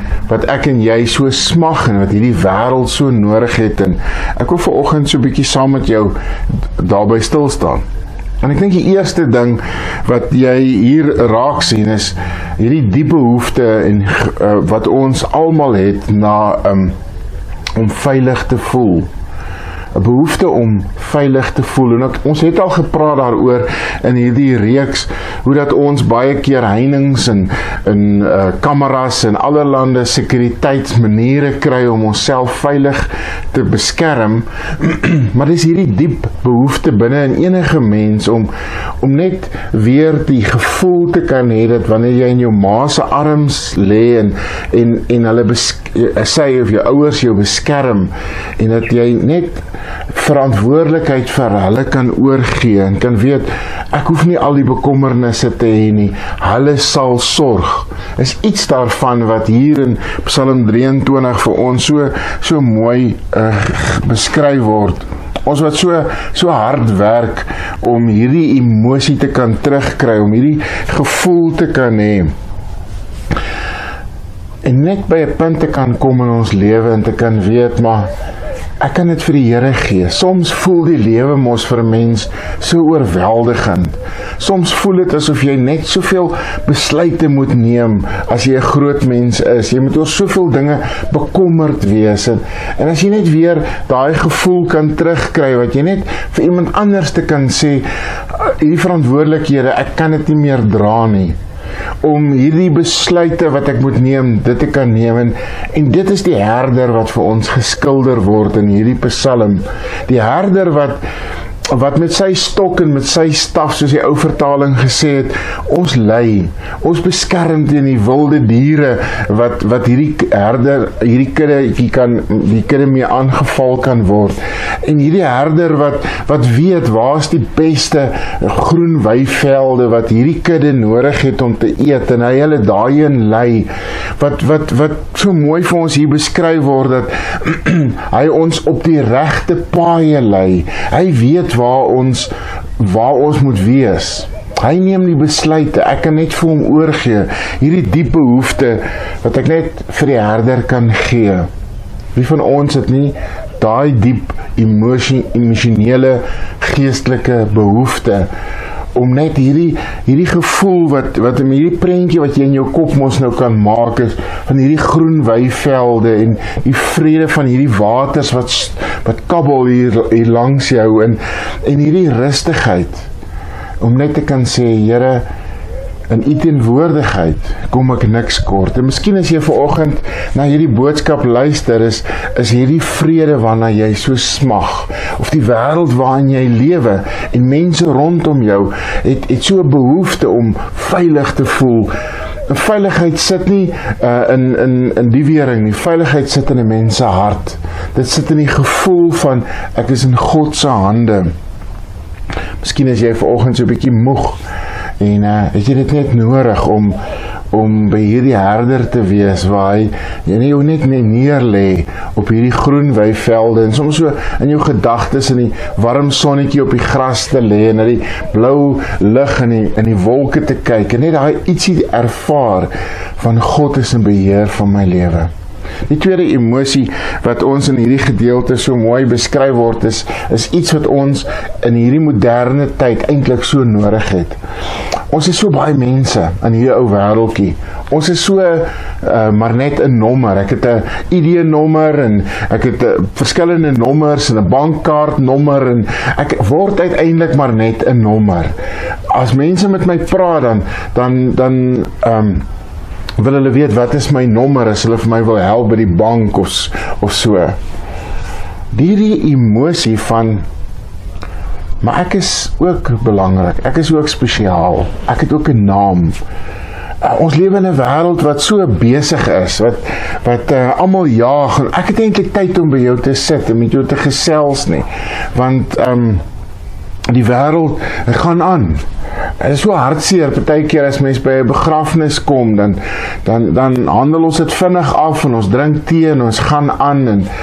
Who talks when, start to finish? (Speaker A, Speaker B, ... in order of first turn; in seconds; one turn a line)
Speaker A: 0.3-6.2
Speaker A: 6.8-7.8
Speaker A: 8.4-16.9
Speaker A: 17.8-19.1
Speaker A: 19.9-72.3
Speaker A: 74.6-78.1
Speaker A: 78.8-101.4
Speaker A: 102.0-111.0
Speaker A: 111.7-151.5
Speaker A: 152.1-158.3
Speaker A: 158.9-173.1
Speaker A: 173.8-175.2
Speaker A: 176.1-191.9
Speaker A: 192.5-201.3
Speaker A: 202.6-204.4
Speaker A: 205.0-207.0
Speaker A: 207.5-225.3
Speaker A: 225.9-234.4
Speaker A: 235.1-248.6
Speaker A: 249.1-252.4
Speaker A: 253.2-257.6
Speaker A: 258.7-260.4
Speaker A: 261.8-266.2
Speaker A: 267.0-276.2
Speaker A: 277.1-278.8
Speaker A: 279.4-287.3